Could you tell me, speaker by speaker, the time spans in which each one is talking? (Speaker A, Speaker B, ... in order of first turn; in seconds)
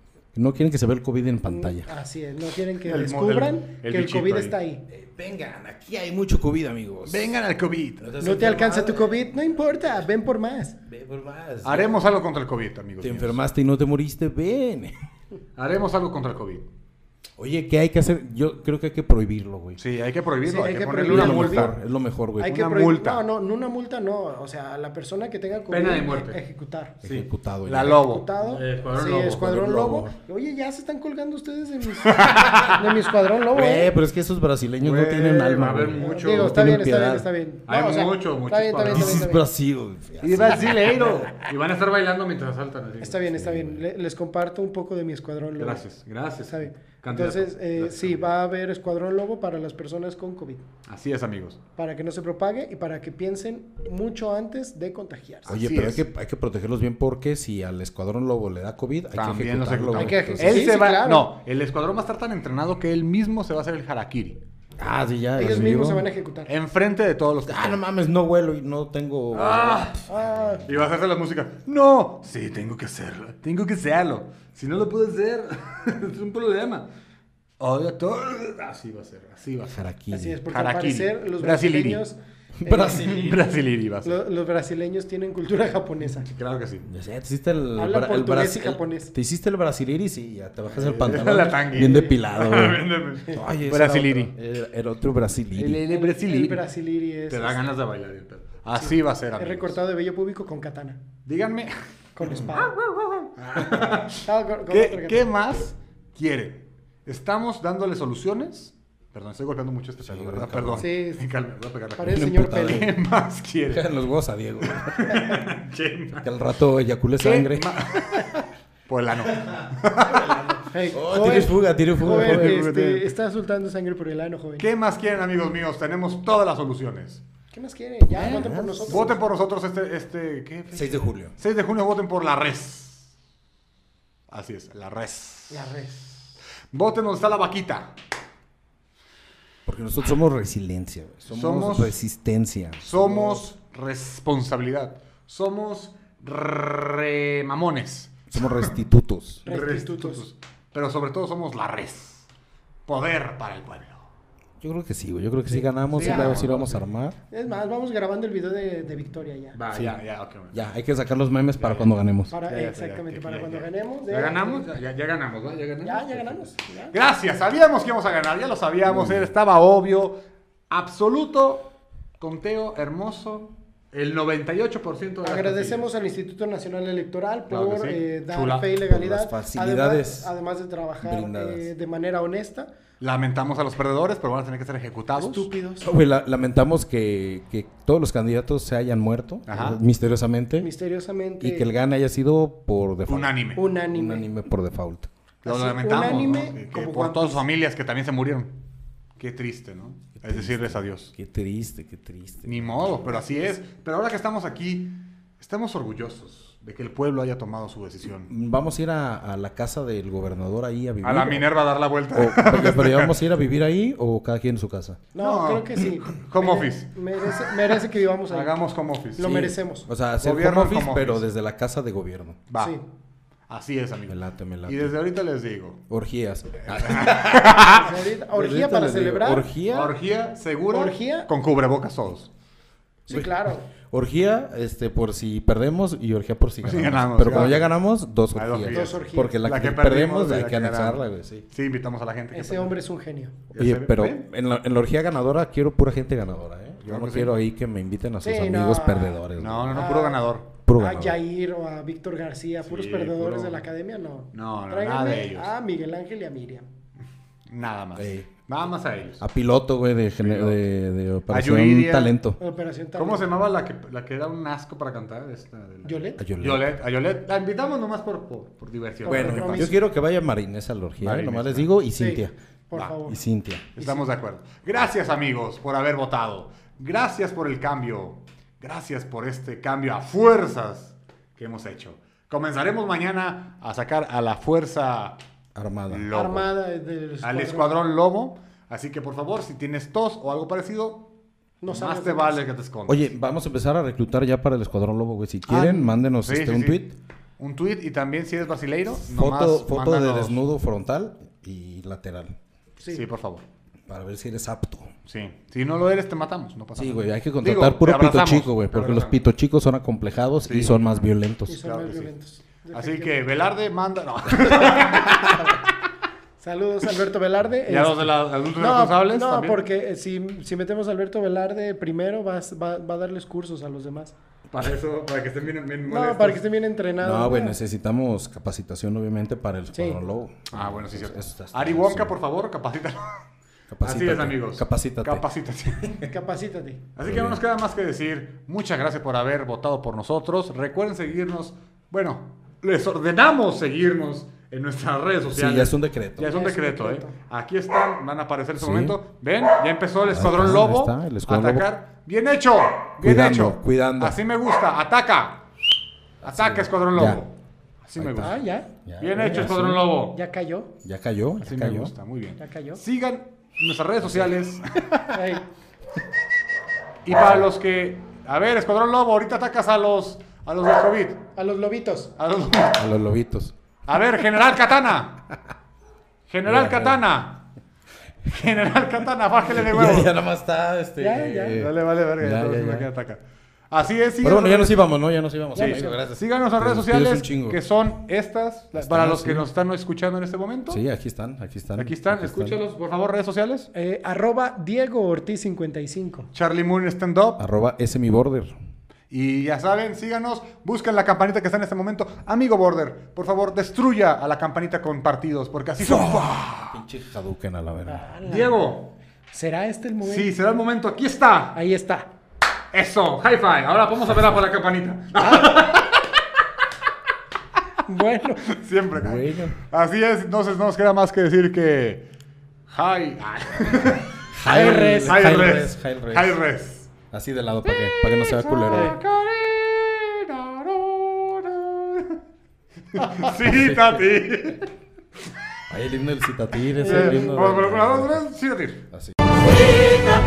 Speaker A: 0.3-1.9, 4.9-7.4, 8.0-9.2, 10.8-12.0, 13.0-14.9, 17.4-19.8, 21.1-22.6, 27.0-28.1, 29.4-30.1, 33.5-37.3, 38.9-41.0, 43.3-43.8, 55.5-60.7, 64.8-66.1, 67.5-70.7, 79.7-80.4, 82.6-83.4, 86.8-95.8, 110.0-110.9, 112.1-112.9, 113.7-115.5, 116.2-118.4, 120.0-123.1, 128.0-129.2, 130.7-131.3, 139.7-143.4, 148.3-149.4, 154.6-157.2, 159.7-160.0, 160.5-162.3, 168.9-169.3, 178.8-180.3, 181.0-181.7, 185.8-190.7, 191.4-195.1, 200.2-202.9, 208.3-211.5, 212.1-215.0, 219.9-222.4, 224.1-224.9, 225.9-229.9, 233.1-241.5, 243.6-249.8, 250.7-251.2, 258.0-258.3, 259.2-262.4, 266.2-266.7, 269.1-272.3, 273.1-273.7, 285.6-286.1, 292.9-296.9, 299.0-302.4, 303.9-304.9, 306.8-311.6, 327.0-332.2, 333.7-335.2, 337.0-337.4, 345.3-346.3, 348.6-349.0, 350.1-351.7, 353.0-354.2, 356.2-357.2, 358.0-359.9, 360.8-361.9, 364.0-364.3, 372.8-373.6, 376.4-377.0, 379.4-382.9, 384.2-387.6, 388.8-389.5, 390.7-392.6, 397.4-398.6, 405.8-408.2, 418.9-419.6, 424.3-426.4, 427.1-429.0, 433.5-434.0, 435.7-438.2, 438.9-439.4
Speaker B: 1.5-4.8, 8.2-10.8, 20.4-21.7, 22.4-27.0, 27.9-33.9, 36.0-39.4, 43.0-45.8, 46.5-50.6, 51.8-55.6, 59.9-61.3, 65.4-66.5, 70.1-70.6, 80.1-83.1, 84.0-86.3, 87.8-89.1, 91.8-92.2, 95.9-97.6, 98.8-101.0, 102.2-102.8, 104.1-105.3, 110.8-111.2, 112.0-112.9, 120.7-124.7, 127.5-129.2, 135.5-136.2, 149.5-150.2, 155.5-156.5, 157.3-159.6, 162.3-164.7, 165.8-167.0, 175.2-182.7, 185.2-185.9, 190.6-191.7, 193.6-194.3, 195.5-197.4, 203.1-203.6, 215.1-218.6, 219.2-219.9, 227.7-229.5, 230.7-231.3, 233.1-233.7, 238.7-239.4, 242.3-243.4, 248.2-250.2, 250.8-256.7, 262.4-263.3, 265.9-266.2, 269.1-269.8, 272.0-273.2, 286.1-287.8, 291.6-292.4, 295.5-295.9, 302.8-303.1, 311.5-313.1, 316.4-324.1, 325.9-327.6, 329.7-330.0, 335.9-336.8, 346.2-347.1, 358.2-360.7, 362.4-362.8, 365.1-365.4, 371.4-372.1, 381.0-381.6, 385.6-386.0, 393.7-396.3, 407.9-408.6, 409.3-410.3, 411.5-412.1, 417.9-418.6, 424.5-425.3, 428.7-429.0
Speaker C: 2.9-4.6, 7.1-8.2, 11.6-13.4, 15.6-16.7, 19.8-21.8, 22.4-23.2, 25.7-26.4, 27.0-29.6, 32.0-33.0, 34.8-36.6, 37.7-39.3, 40.2-43.3, 45.6-47.9, 50.9-51.6, 55.5-56.0, 59.1-64.4, 66.5-67.8, 69.3-70.0, 70.7-76.9, 77.6-79.9, 80.5-82.0, 82.7-84.2, 86.2-86.9, 90.7-94.3, 95.6-96.7, 97.3-99.8, 101.3-113.9, 114.6-116.3, 117.2-120.6, 124.6-127.2, 128.2-133.1, 134.3-135.7, 136.7-137.9, 141.3-141.9, 142.8-148.7, 149.4-152.3, 152.9-154.0, 155.9-156.8, 159.6-160.6, 161.6-161.9, 162.5-166.3, 166.9-175.9, 177.5-178.7, 183.0-185.5, 189.5-189.8, 193.1-193.7, 195.4-198.6, 199.2-201.1, 202.5-208.3, 211.0-213.1, 215.2-219.5, 220.2-221.3, 222.5-222.8, 223.5-225.8, 226.7-228.0, 229.7-232.3, 236.6-237.7, 238.3-242.8, 243.5-244.3, 246.9-247.4, 249.4-250.5, 252.7-253.6, 254.3-255.5, 257.5-259.2, 260.2-260.6, 261.3-262.2, 263.0-269.7, 271.0-271.7, 273.8-285.2, 285.9-286.5, 287.2-291.1, 291.7-293.1, 295.6-296.8, 297.4-300.4, 302.9-303.4, 305.1-309.2, 310.5-310.9, 311.5-312.1, 312.7-315.6, 317.7-319.7, 324.5-326.4, 330.5-333.2, 333.8-336.1, 337.0-355.4, 356.2-357.3, 357.8-358.4, 359.0-360.2, 361.4-365.2, 367.1-371.3, 372.2-372.8, 373.9-375.2, 376.3-377.5, 378.3-380.1, 381.5-384.9, 385.6-390.8, 391.8-393.7, 396.3-397.4, 399.1-406.8, 408.2-408.9, 410.0-411.6, 412.7-416.2, 418.5-422.1, 422.7-426.9, 427.7-432.2, 433.0-434.7, 436.8-438.9